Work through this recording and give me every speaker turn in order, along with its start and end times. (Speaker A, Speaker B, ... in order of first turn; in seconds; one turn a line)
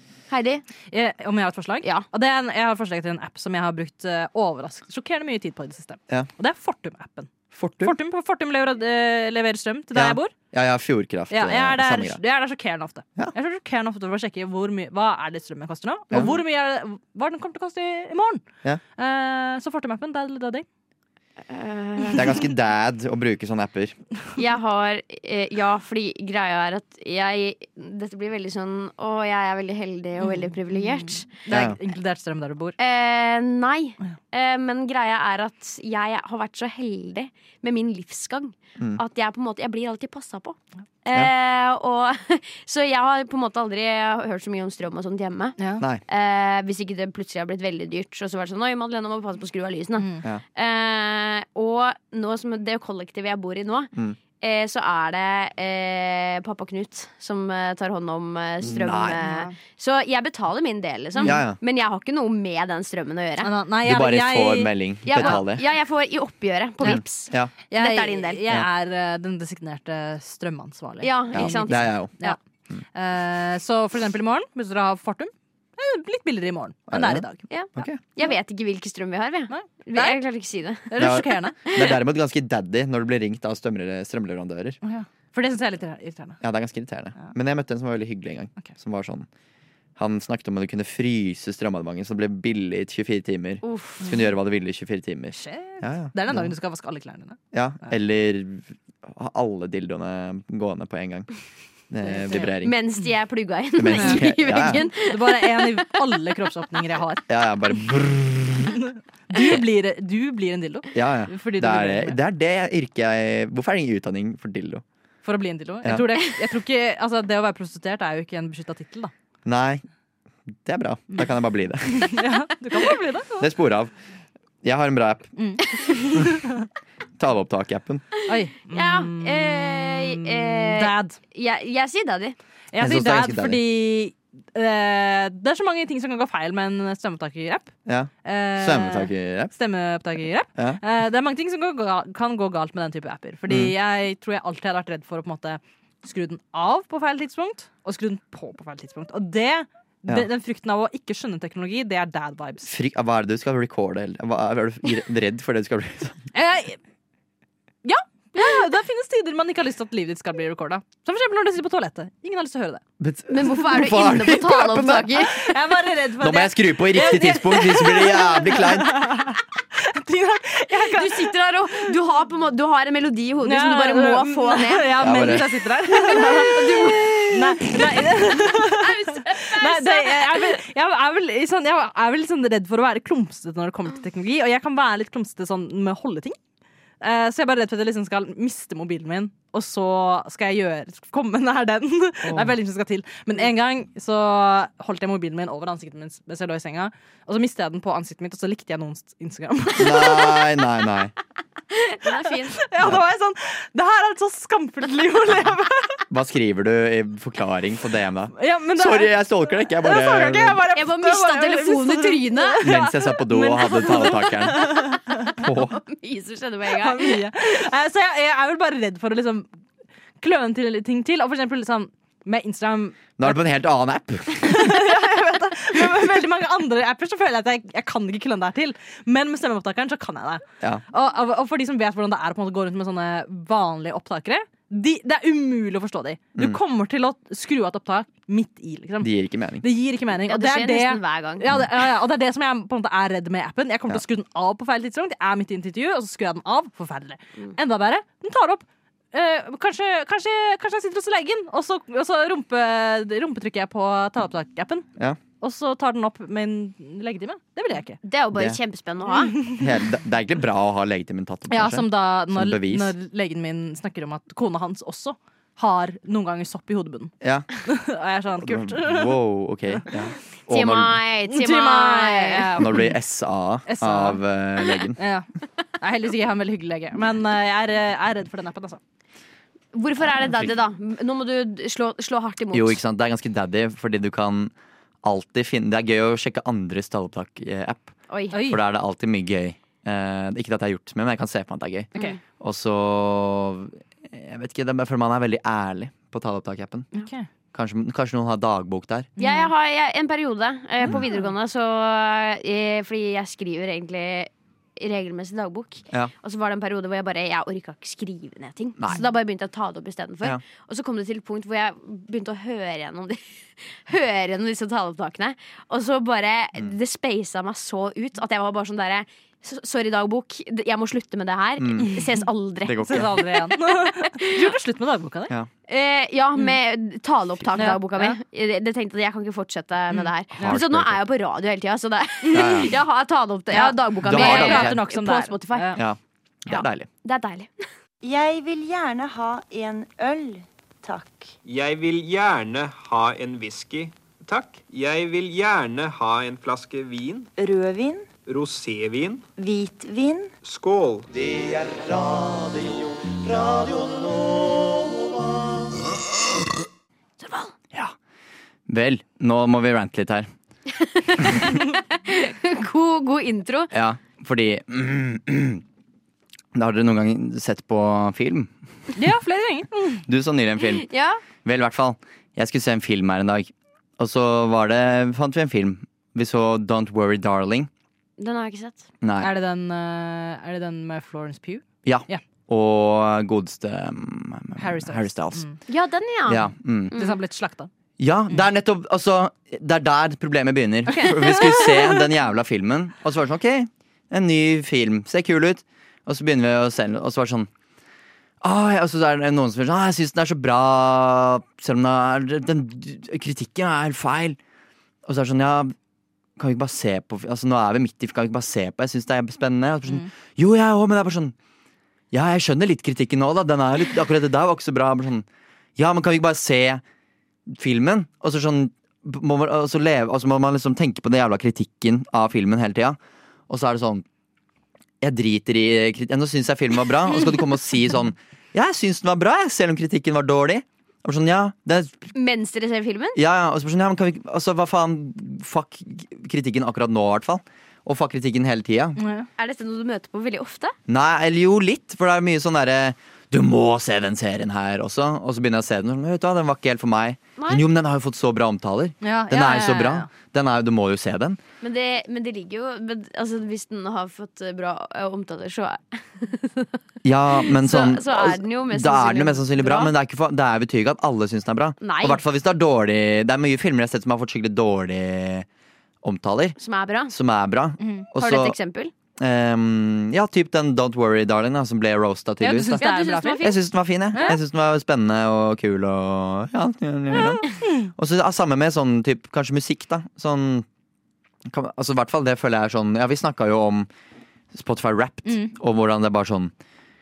Speaker A: 0.3-0.6
Speaker B: 0.9-10.3
Speaker C: 7.5-7.9
Speaker C: 9.9-12.2
Speaker B: 11.3-18.4
Speaker C: 16.1-16.4
Speaker B: 19.0-20.6
Speaker A: 21.4-22.3
Speaker C: 22.1-24.0
Speaker A: 24.4-31.3
Speaker B: 30.2-32.7
Speaker C: 31.5-31.8
Speaker A: 32.8-45.5
Speaker B: 45.6-45.9
Speaker A: 46.1-63.5
Speaker B: 50.0-50.2
Speaker C: 58.6-59.2
Speaker B: 59.2-59.5
Speaker C: 61.2-61.6
Speaker B: 63.4-65.4
Speaker C: 63.8-65.6
Speaker A: 65.0-68.4
Speaker C: 66.8-67.5
Speaker B: 67.7-72.4
Speaker A: 71.0-72.4
Speaker C: 71.3-72.1
Speaker B: 72.9-77.4
Speaker C: 76.9-78.0
Speaker A: 77.5-80.9
Speaker B: 79.5-80.2
Speaker B: 80.9-81.6
Speaker C: 81.0-84.8
Speaker B: 84.8-86.4
Speaker C: 86.4-89.3
Speaker C: 90.0-96.5
Speaker A: 93.6-94.0
Speaker B: 95.3-98.0
Speaker C: 97.5-101.3
Speaker C: 101.9-102.7
Speaker B: 102.2-102.5
Speaker A: 102.3-105.8
Speaker C: 103.8-104.8
Speaker B: 104.0-107.2
Speaker C: 107.3-108.8
Speaker B: 108.7-112.2
Speaker C: 110.9-114.8
Speaker B: 115.2-119.1
Speaker C: 119.5-119.8
Speaker C: 120.6-122.2
Speaker B: 121.9-123.5
Speaker C: 123.4-123.9
Speaker C: 124.6-125.3
Speaker B: 125.4-126.7
Speaker C: 127.2-128.0
Speaker B: 128.2-131.2
Speaker A: 128.7-132.4
Speaker B: 132.7-137.7
Speaker C: 132.8-133.6
Speaker C: 137.8-139.5
Speaker B: 138.2-152.7
Speaker C: 152.6-156.2
Speaker B: 156.3-156.8
Speaker B: 157.8-162.8
Speaker C: 163.0-165.2
Speaker A: 163.3-165.5
Speaker B: 165.3-171.3
Speaker C: 166.2-169.0
Speaker A: 170.9-174.8
Speaker B: 173.4-186.4
Speaker C: 175.0-175.4
Speaker A: 175.9-177.8
Speaker A: 178.3-180.6
Speaker B: 187.0-200.5
Speaker C: 192.2-192.5
Speaker C: 199.8-201.1
Speaker A: 201.7-202.6
Speaker B: 202.6-206.0
Speaker C: 206.1-210.6
Speaker B: 208.4-215.5
Speaker A: 210.7-212.6
Speaker C: 212.6-215.8
Speaker A: 215.8-217.6
Speaker B: 216.8-219.5
Speaker B: 220.2-223.4
Speaker C: 223.2-224.5
Speaker B: 224.4-254.8
Speaker C: 239.0-239.6
Speaker A: 240.3-241.4
Speaker B: 255.4-258.0
Speaker A: 258.0-259.3
Speaker B: 259.1-259.7
Speaker C: 259.5-262.9
Speaker B: 261.5-267.1
Speaker C: 267.2-267.5
Speaker B: 267.6-269.2
Speaker C: 268.4-271.0
Speaker A: 270.5-272.5
Speaker B: 271.3-272.9
Speaker C: 272.6-275.0
Speaker B: 273.6-274.2
Speaker B: 275.0-275.3
Speaker B: 275.8-278.8
Speaker A: 279.7-282.8
Speaker C: 282.5-296.9
Speaker A: 288.1-288.4
Speaker B: 288.3-288.6
Speaker B: 296.9-297.3
Speaker C: 297.5-299.1
Speaker B: 299.2-299.5
Speaker A: 299.2-324.3
Speaker B: 300.8-301.2
Speaker C: 321.6-321.9
Speaker C: 322.6-323.1
Speaker B: 322.9-325.3
Speaker A: 325.7-335.8
Speaker B: 327.6-328.2
Speaker B: 329.9-330.6
Speaker C: 330.4-331.0
Speaker B: 332.3-332.7
Speaker C: 332.3-332.7
Speaker B: 333.5-335.8
Speaker C: 334.0-334.8
Speaker C: 335.8-336.9
Speaker A: 336.5-337.7
Speaker D: 338.0-341.3
Speaker E: 341.4-347.3
Speaker D: 347.4-348.1
Speaker E: 348.2-349.2
Speaker D: 349.4-350.3
Speaker E: 350.4-351.1
Speaker C: 351.3-352.5
Speaker C: 353.2-354.1
Speaker E: 353.5-354.3
Speaker A: 357.2-357.5
Speaker C: 358.7-360.3
Speaker A: 360.7-363.7
Speaker C: 363.7-365.6
Speaker C: 366.5-368.5
Speaker B: 368.9-370.0
Speaker C: 370.1-370.9
Speaker A: 370.8-371.2
Speaker C: 371.4-377.7
Speaker A: 378.2-378.8
Speaker C: 379.0-379.3
Speaker B: 379.2-382.2
Speaker C: 381.8-385.4
Speaker B: 384.6-385.6
Speaker A: 385.7-387.2
Speaker C: 386.3-386.9
Speaker B: 386.9-387.7
Speaker C: 388.0-397.5
Speaker B: 390.9-392.0
Speaker C: 398.4-404.4
Speaker C: 405.0-405.7
Speaker C: 406.4-411.3
Speaker C: 412.1-416.8
Speaker C: 417.5-423.0
Speaker C: 423.5-424.0
Speaker C: 425.0-432.1
Speaker A: 432.1-433.2
Speaker C: 433.1-439.0
Speaker B: 439.0-439.3
Speaker A: 439.4-440.7
Speaker C: 440.9-451.4
Speaker A: 447.4-447.6
Speaker B: 449.0-450.1
Speaker A: 451.6-456.8
Speaker C: 457.0-465.5
Speaker A: 457.3-459.9
Speaker A: 461.8-462.2
Speaker C: 466.0-466.6
Speaker A: 466.6-467.1
Speaker C: 467.1-468.6
Speaker B: 467.8-468.1
Speaker A: 468.1-468.9
Speaker C: 469.2-472.8
Speaker B: 472.4-473.6
Speaker A: 472.8-473.6
Speaker C: 473.4-480.7
Speaker B: 474.1-474.4
Speaker B: 477.1-477.9
Speaker C: 481.5-483.9
Speaker C: 484.5-486.5
Speaker B: 485.2-485.5